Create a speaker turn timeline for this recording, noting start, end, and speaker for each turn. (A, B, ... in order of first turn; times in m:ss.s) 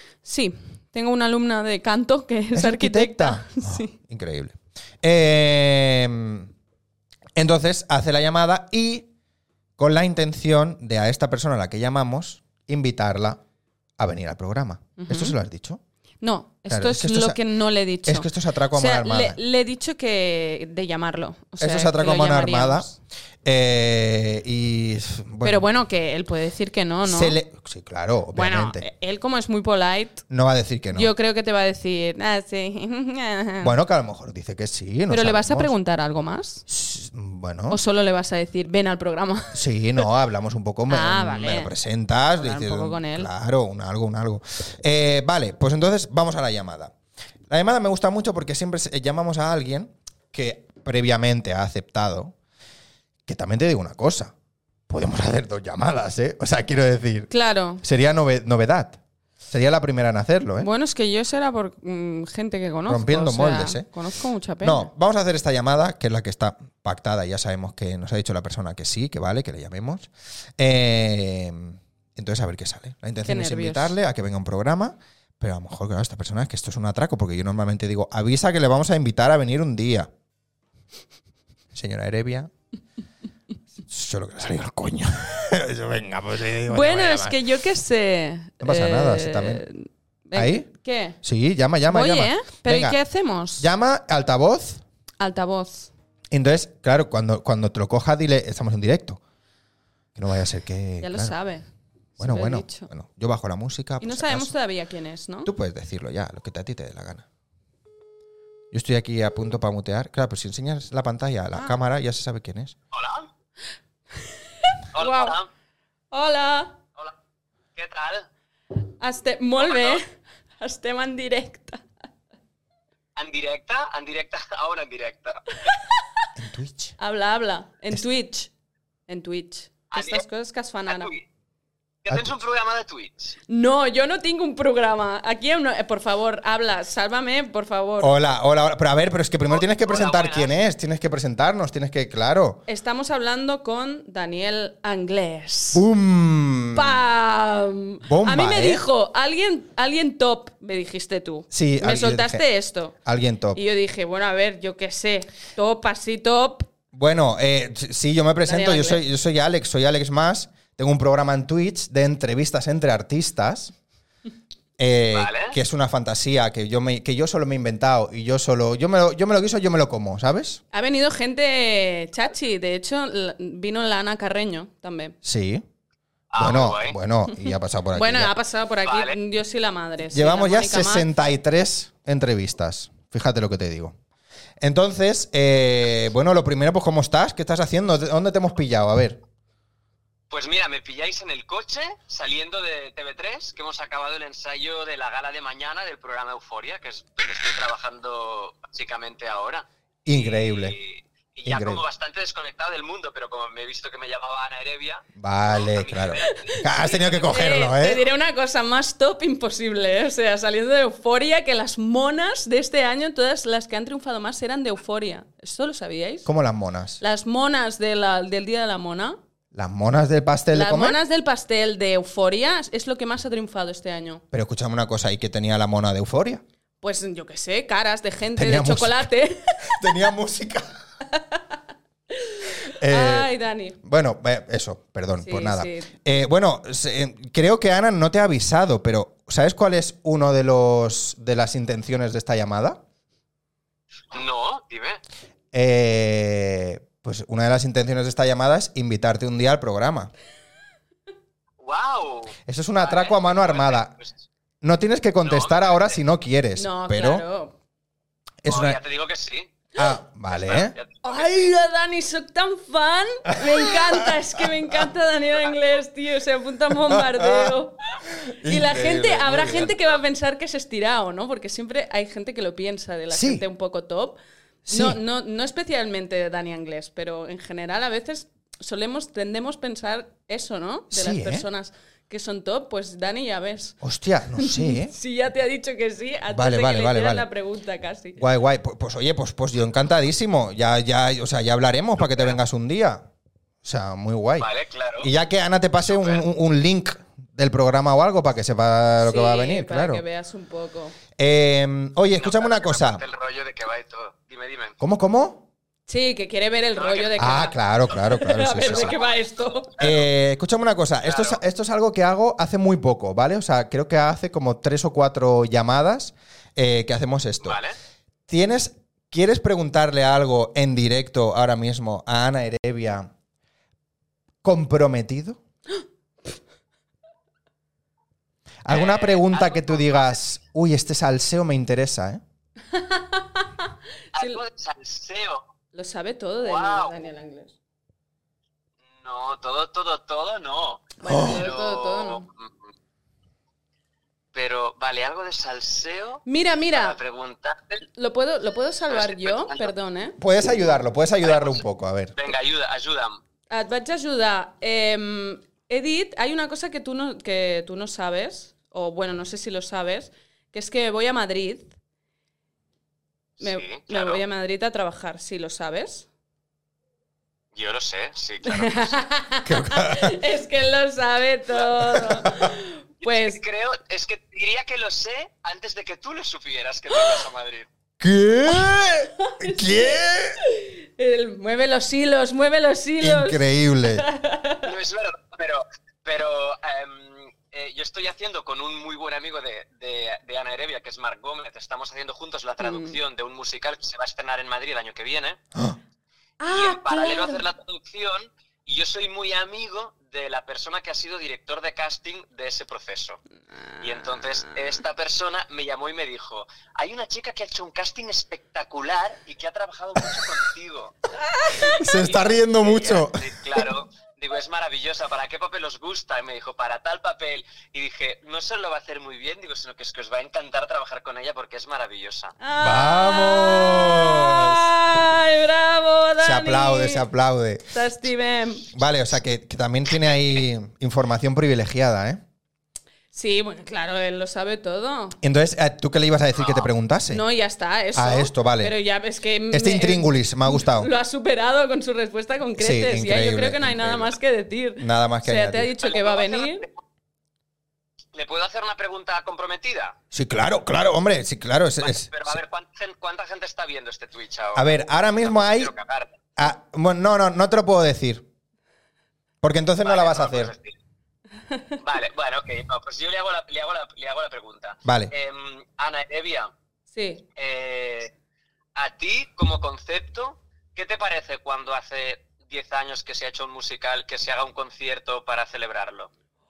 0:00.2-0:03.9 A
0:02.5-0:06.5 B
0:07.4-0:09.1 B
0:09.8-0:13.4 B
0:14.0-0:15.8 B
0:15.0-0:15.4 A
0:16.2-0:23.0 A
0:16.7-0:17.4 B
0:18.0-0:19.4 B
0:21.6-0:22.9 B
0:23.4-0:25.7 B
0:25.4-0:27.4 A
0:27.0-0:28.8 B
0:28.3-0:30.2 A
0:30.3-0:31.1 B
0:30.9-0:33.7 A
0:33.6-0:35.7 B
0:35.1-0:36.6 A
0:36.7-0:37.8 B
0:37.7-0:39.6 A
0:39.5-0:46.9 B
0:40.9-0:41.7 A
0:42.4-0:43.3 A
0:47.5-0:52.4 B
0:53.3-0:54.3 B
0:54.9-1:00.7 B
0:57.3-0:57.8 A
1:00.6-1:04.9 A
1:02.9-1:03.9 B
1:04.6-1:20.1 B
1:13.2-1:14.0 A
1:21.7-1:22.5 B
1:23.9-1:27.4 B
1:26.7-1:31.2 A
1:28.6-1:29.6 B
1:30.4-1:30.7 B
1:31.2-1:33.0 B
1:31.9-1:33.7 A
1:33.6-1:34.8 B
1:35.2-1:35.9 A
1:36.3-1:39.2 B
1:40.2-1:41.3 B
1:41.0-1:41.7 A
1:42.2-1:42.9 A
1:42.2-1:44.5 B
1:44.0-1:45.5 A
1:45.5-1:47.3 B
1:48.7-1:52.8 B
1:52.9-1:53.3 C
1:54.2-1:55.4 A
1:54.9-1:55.5 C
1:56.1-1:56.8 A
1:57.8-1:58.3 C
1:59.0-2:00.1 A
1:59.6-2:00.0 C
2:00.6-2:01.8 A
2:03.2-2:05.6 C
2:05.6-2:06.2 A
2:06.4-2:07.0 B
2:07.0-2:08.5 A
2:09.1-2:11.1 A
2:09.9-2:10.2 C
2:10.9-2:11.2 C
2:12.0-2:13.4 C
2:13.5-2:18.1 A
2:18.0-2:22.6 B
2:19.5-2:20.5 C
2:22.7-2:25.8 A
2:25.7-2:27.0 B
2:26.7-2:32.9 A
2:28.1-2:28.8 B
2:31.5-2:32.4 B
2:33.0-2:33.6 B
2:33.5-2:36.7 A
2:36.9-2:43.7 B
2:38.4-2:39.0 A
2:44.8-2:50.6 B
2:45.1-2:45.6 C
2:50.7-2:55.2 A
2:55.2-2:55.6 B
2:56.3-2:57.0 C
2:56.4-2:58.3 B
2:57.3-3:01.1 A
2:58.8-2:59.2 C
3:00.1-3:04.0 B
3:04.6-3:09.2 B
3:10.3-3:27.1 C
3:20.1-3:20.8 B
3:21.5-3:21.8 B
3:25.2-3:28.0 B
3:26.3-3:26.6 A
3:27.2-3:36.3 A
3:36.3-3:37.0 B
3:37.0-3:39.2 A
3:39.5-3:41.0 B
3:40.5-3:44.2 A
3:44.3-3:46.4 B
3:46.8-3:49.8 A
3:48.4-3:49.1 B
3:49.6-3:50.8 B
3:51.1-3:51.4 A
3:52.1-3:53.8 A
3:52.8-4:02.8 B
3:55.2-3:56.0 A
4:04.1-4:05.0 C
4:05.5-4:10.1 B
4:11.6-4:14.2 C
4:12.5-4:13.9 B
4:14.6-4:17.2 B
4:15.2-4:16.0 C
4:16.6-4:17.6 A
4:18.4-4:18.8 B
4:18.5-4:19.5 C
4:19.8-4:20.8 B
4:20.3-4:21.4 C
4:21.0-4:34.2 A
4:23.3-4:24.8 B
4:26.8-4:29.8 B
4:33.1-4:33.4 B
4:34.7-4:35.0 B
4:34.7-4:43.8 A
4:40.9-4:41.5 B
4:43.8-4:44.9 B
4:44.4-4:48.2 A
4:46.3-4:47.3 B
4:48.2-4:53.0 B
4:53.6-4:54.5 B
4:54.4-4:55.1 C
4:55.0-5:00.0 B
4:55.9-4:56.2 C
4:59.0-5:01.0 A
5:01.2-5:03.0 B
5:02.2-5:04.8 C
5:04.8-5:05.4 B
5:05.9-5:09.7 A
5:06.8-5:07.5 C
5:07.2-5:09.0 B
5:08.6-5:09.1 C
5:09.7-5:10.1 C
5:09.8-5:17.6 B
5:11.0-5:11.4 C
5:17.4-5:17.8 C
5:18.3-5:23.1 B
5:24.4-5:25.4 B
5:28.6-5:32.2 B
5:28.7-5:30.2 C
5:32.7-5:34.4 A
5:34.2-5:35.5 C
5:35.7-5:37.6 A
5:36.4-5:37.0 C
5:39.0-5:42.5 C
5:41.0-5:42.3 A
5:41.0-5:41.4 B
5:44.3-5:47.8 C
5:46.3-5:47.0 A
5:48.0-5:50.2 A
5:48.9-5:49.7 C
5:50.2-5:52.2 B
5:51.2-5:51.6 C
5:52.2-5:53.2 C
5:53.5-6:01.7 A
6:03.4-6:04.2 C
6:03.4-6:06.1 A
6:07.5-6:09.0 C
6:08.5-6:13.4 A
6:09.5-6:10.2 B
6:11.9-6:12.5 B
6:13.0-6:17.7 C
6:16.9-6:17.2 A
6:18.0-6:20.4 B
6:18.5-6:24.7 A
6:23.0-6:24.1 B
6:24.6-6:35.4 C
6:32.6-6:33.0 A
6:36.4-6:37.4 A
6:36.5-6:43.2 C
6:43.7-6:44.8 A
6:43.8-6:51.0 C
6:51.2-6:52.0 A
6:51.5-6:53.6 B
6:51.8-7:02.4 C
7:02.4-7:07.0 A
7:02.6-7:04.8 B
7:06.2-7:07.7 B
7:07.7-7:08.7 A
7:08.7-7:12.2 B
7:13.1-7:15.2 A
7:15.2-7:17.2 B
7:16.4-7:16.7 C
7:17.1-7:26.7 A
7:18.0-7:18.8 B
7:19.5-7:20.9 B
7:22.6-7:24.2 B
7:24.8-7:25.7 B
7:25.8-7:26.8 C
7:28.1-7:30.0 C
7:30.1-7:32.4 B
7:31.8-7:36.2 C
7:34.6-7:35.7 B
7:36.4-7:38.2 B
7:39.4-7:40.5 B
7:39.8-7:40.8 C
7:41.5-7:41.8 A
7:41.8-7:46.5 C
7:44.8-7:45.1 B
7:46.9-7:47.2 A
7:47.4-7:48.1 C
7:48.8-7:56.1 C